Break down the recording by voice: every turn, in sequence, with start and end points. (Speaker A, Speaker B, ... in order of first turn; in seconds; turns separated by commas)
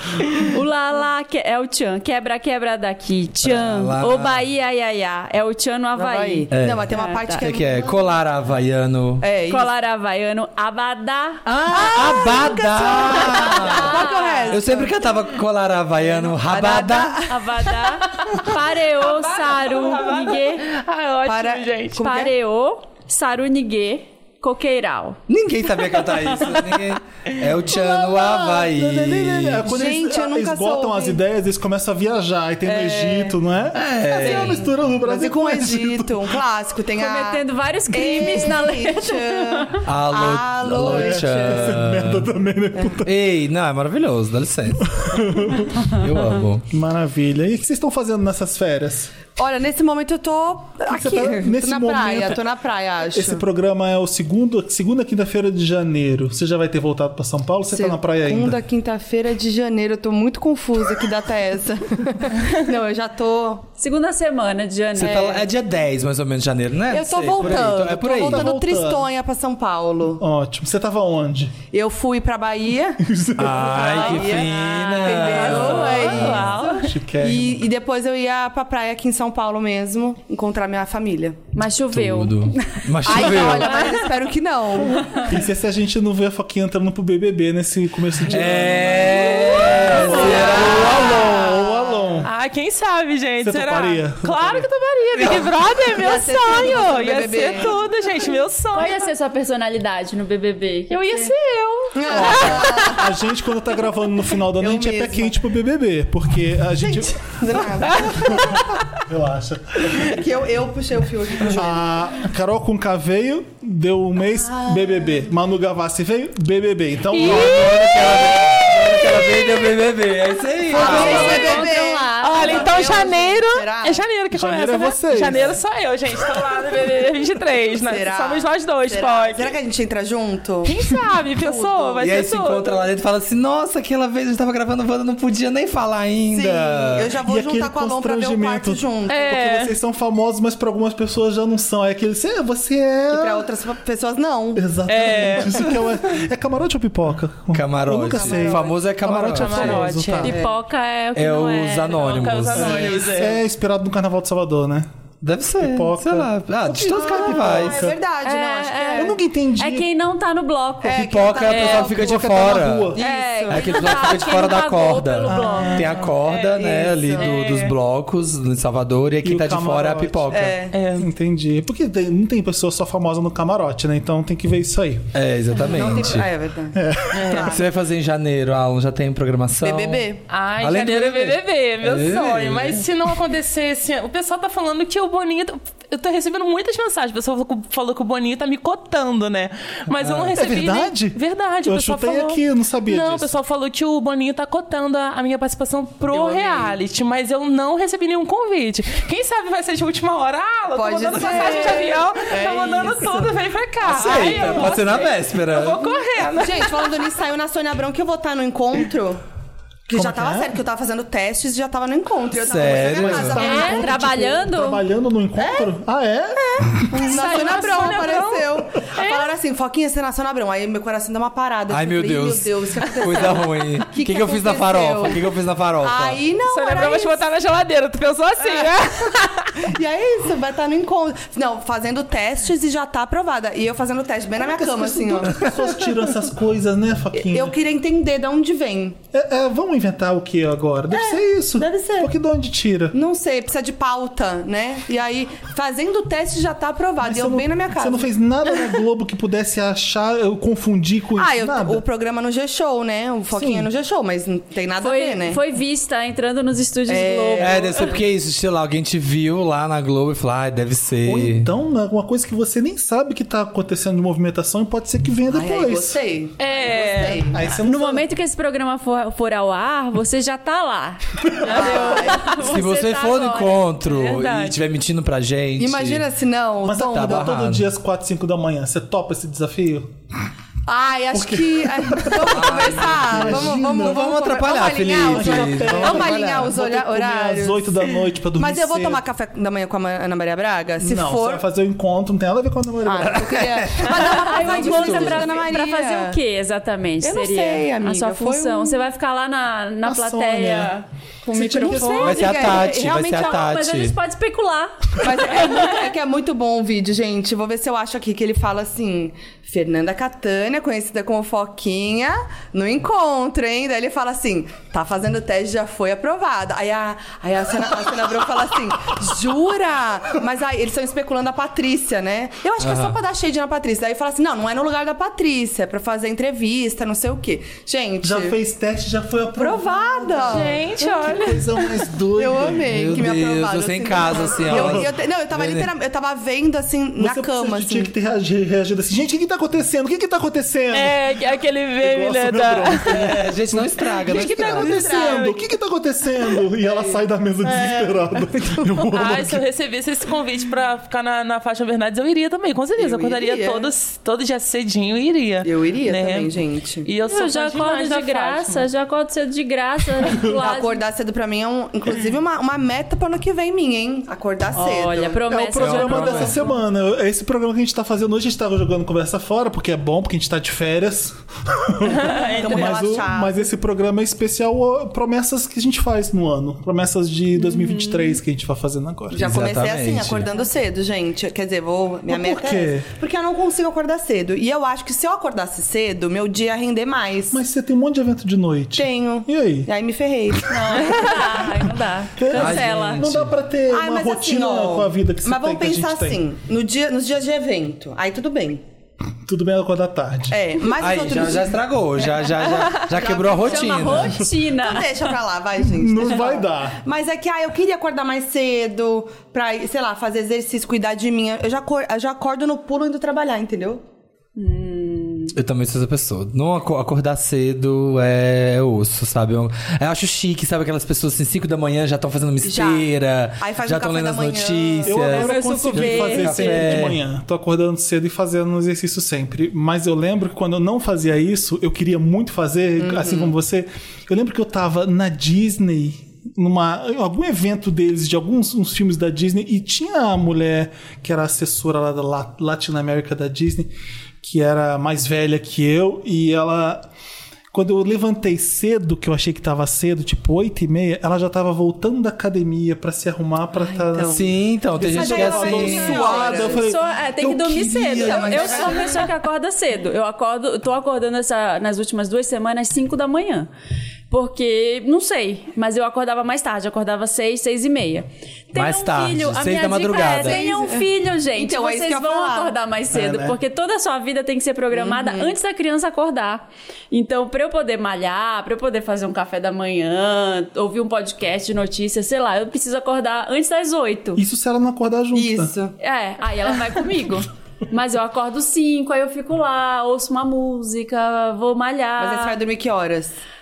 Speaker A: 0.4-7.5, Speaker B: 3.4-4.4, Speaker C: 5.9-8.1, Speaker B: 6.5-9.2, Speaker C: 9.2-9.7, Speaker A: 9.5-11.4, Speaker B: 11.4-14.0, Speaker C: 11.7-14.9, Speaker A: 13.3-14.6, Speaker B: 14.5-17.2, Speaker C: 16.4-18.4, Speaker A: 17.3-20.6, Speaker D: 18.9-21.9, Speaker C: 21.2-22.3, Speaker A: 22.0-25.2, Speaker B: 25.3-29.6, Speaker E: 27.7-36.4, Speaker C: 29.6-31.2, Speaker C: 32.6-33.3, Speaker B: 33.7-34.7, Speaker C: 34.1-41.8, Speaker A: 37.0-39.8, Speaker B: 39.8-42.2, Speaker E: 40.8-43.2, Speaker B: 43.0-46.6, Speaker E: 45.0-45.8, Speaker E: 46.7-49.1, Speaker C: 49.4-53.4, Speaker E: 50.9-52.4, Speaker E: 53.0-58.6, Speaker C: 57.7-63.6, Speaker A: 63.8-65.4, Speaker B: 64.9-68.5, Speaker C: 65.0-65.4, Speaker C: 66.9-70.2, Speaker E: 67.4-69.1, Speaker E: 70.2-71.5, Speaker C: 71.7-73.0, Speaker E: 73.0-74.0, Speaker B: 73.4-76.5, Speaker C: 73.5-81.4, Speaker A: 73.8-76.4, Speaker E: 75.5-77.7, Speaker D: 75.6-76.3, Speaker A: 81.5-84.1, Speaker B: 81.9-83.9, Speaker C: 83.0-85.3, Speaker E: 85.2-92.3, Speaker B: 88.2-91.1, Speaker C: 88.3-92.1, Speaker D: 90.4-91.5, Speaker D: 92.2-99.1, Speaker E: 93.4-94.7, Speaker B: 95.2-95.5, Speaker C: 95.9-97.8, Speaker A: 98.7-101.3, Speaker D: 100.9-103.2, Speaker C: 101.9-103.1, Speaker E: 102.1-110.2, Speaker C: 104.6-105.4, Speaker C: 106.8-108.7, Speaker D: 107.9-108.6, Speaker C: 110.0-112.0, Speaker E: 111.4-117.8, Speaker C: 114.5-115.1, Speaker D: 117.1-119.4, Speaker B: 117.2-121.6, Speaker C: 120.7-124.0, Speaker A: 120.7-123.0, Speaker D: 120.9-121.6, Speaker D: 122.2-129.5, Speaker E: 124.3-125.5, Speaker C: 127.7-130.7, Speaker D: 130.6-132.8, Speaker C: 131.3-132.1, Speaker B: 132.0-137.1, Speaker C: 136.3-139.2, Speaker E: 137.2-143.5, Speaker D: 139.1-139.7, Speaker C: 143.1-144.6, Speaker E: 144.5-150.3, Speaker D: 144.9-145.8, Speaker B: 147.5-149.9, Speaker C: 148.0-148.8, Speaker D: 149.2-150.3, Speaker A: 150.2-152.3, Speaker C: 150.2-150.5, Speaker B: 151.1-152.9, Speaker D: 151.9-153.4, Speaker E: 152.5-154.9, Speaker B: 155.2-157.8, Speaker E: 155.6-158.0, Speaker C: 156.8-159.1, Speaker A: 158.2-161.1, Speaker E: 158.9-159.9, Speaker C: 160.8-164.3, Speaker B: 160.9-170.6, Speaker E: 161.5-163.0, Speaker A: 163.0-165.8, Speaker E: 165.2-166.1, Speaker D: 166.0-166.6, Speaker C: 166.5-167.6, Speaker D: 167.1-167.7, Speaker E: 169.2-175.1, Speaker C: 170.3-170.8, Speaker D: 170.7-171.1, Speaker B: 175.1-176.3, Speaker C: 175.6-177.7, Speaker E: 176.7-177.4, Speaker D: 177.1-177.5, Speaker B: 177.4-180.1, Speaker C: 179.6-180.2, Speaker D: 180.3-206.9, Speaker B: 180.6-182.8, Speaker B: 190.0-190.4, Speaker E: 190.3-193.3, Speaker C: 196.1-196.7, Speaker C: 200.7-203.3, Speaker C: 203.9-205.1, Speaker B: 203.9-205.8, Speaker C: 206.4-209.2, Speaker C: 209.9-213.9, Speaker E: 209.9-210.6, Speaker B: 212.3-213.5, Speaker E: 212.7-217.1, Speaker D: 213.4-213.8, Speaker A: 213.4-214.8, Speaker C: 215.4-215.7, Speaker C: 216.4-225.3, Speaker D: 217.0-219.3, Speaker B: 221.7-226.2, Speaker C: 225.8-227.2, Speaker D: 226.4-229.7, Speaker C: 228.4-228.7, Speaker C: 229.6-235.8, Speaker E: 234.3-237.5, Speaker C: 237.1-239.0, Speaker E: 239.1-242.9, Speaker C: 240.9-242.1, Speaker C: 242.9-248.1, Speaker E: 247.0-251.8, Speaker C: 251.2-255.4, Speaker E: 253.3-253.7, Speaker A: 254.8-257.9, Speaker C: 256.9-258.0, Speaker B: 257.4-261.5, Speaker E: 261.0-266.0, Speaker C: 265.3-267.6, Speaker D: 266.4-267.3, Speaker E: 267.3-268.1, Speaker A: 267.6-274.5, Speaker C: 271.4-272.5, Speaker B: 272.3-276.0, Speaker C: 275.6-277.3, Speaker E: 276.6-279.9, Speaker B: 276.8-277.6, Speaker C: 280.7-291.4, Speaker E: 281.1-284.1, Speaker B: 282.3-286.3, Speaker E: 285.1-289.0, Speaker E: 290.8-293.4, Speaker C: 292.8-296.2, Speaker B: 293.1-295.4, Speaker A: 293.8-305.7, Speaker C: 297.0-298.8, Speaker E: 299.8-300.7, Speaker E: 301.3-302.2, Speaker C: 301.3-303.5, Speaker B: 301.9-303.9, Speaker C: 305.0-328.4, Speaker B: 322.6-323.0, Speaker E: 328.0-333.0, Speaker C: 329.4-330.7, Speaker D: 330.2-331.6, Speaker C: 332.1-337.9, Speaker B: 332.7-335.7, Speaker E: 334.2-334.9, Speaker E: 337.0-341.0, Speaker D: 340.7-343.2, Speaker E: 341.8-349.4, Speaker B: 342.9-344.7, Speaker D: 343.9-345.4, Speaker C: 344.6-345.2, Speaker D: 347.4-347.9, Speaker D: 348.9-356.3, Speaker C: 352.8-353.7, Speaker C: 355.4-356.9, Speaker D: 356.8-358.7, Speaker A: 357.1-360.8, Speaker C: 360.4-365.2, Speaker A: 364.5-366.6, Speaker E: 365.3-379.4, Speaker B: 365.5-366.4, Speaker D: 371.9-372.8, Speaker C: 372.4-373.5, Speaker A: 377.4-378.2, Speaker C: 379.1-387.4, Speaker B: 379.2-380.3, Speaker E: 382.1-382.9, Speaker E: 387.3-389.7, Speaker C: 388.8-391.4, Speaker A: 390.5-393.0, Speaker E: 392.2-396.2, Speaker B: 392.3-393.3, Speaker C: 393.7-398.6, Speaker E: 399.2-400.4, Speaker C: 400.3-401.6, Speaker B: 400.8-404.2, Speaker C: 402.4-413.8, Speaker A: 402.5-405.2, Speaker E: 405.6-406.8, Speaker A: 414.4-415.3, Speaker B: 415.3-427.0, Speaker C: 422.4-425.0, Speaker E: 424.8-446.8, Speaker A: 425.0-426.9, Speaker C: 432.8-433.3, Speaker E: 447.5-456.8, Speaker C: 453.6-454.3, Speaker B: 454.1-456.3, Speaker A: 454.9-463.5, Speaker C: 454.9-456.7, Speaker B: 457.1-459.0, Speaker C: 458.1-458.8, Speaker A: 464.1-484.2, Speaker B: 468.5-470.4, Speaker C: 470.0-472.6, Speaker E: 472.9-473.4, Speaker C: 474.7-475.3, Speaker E: 484.1-485.5, Speaker C: 485.1-485.8, Speaker A: 485.8-492.4, Speaker C: 492.0-493.2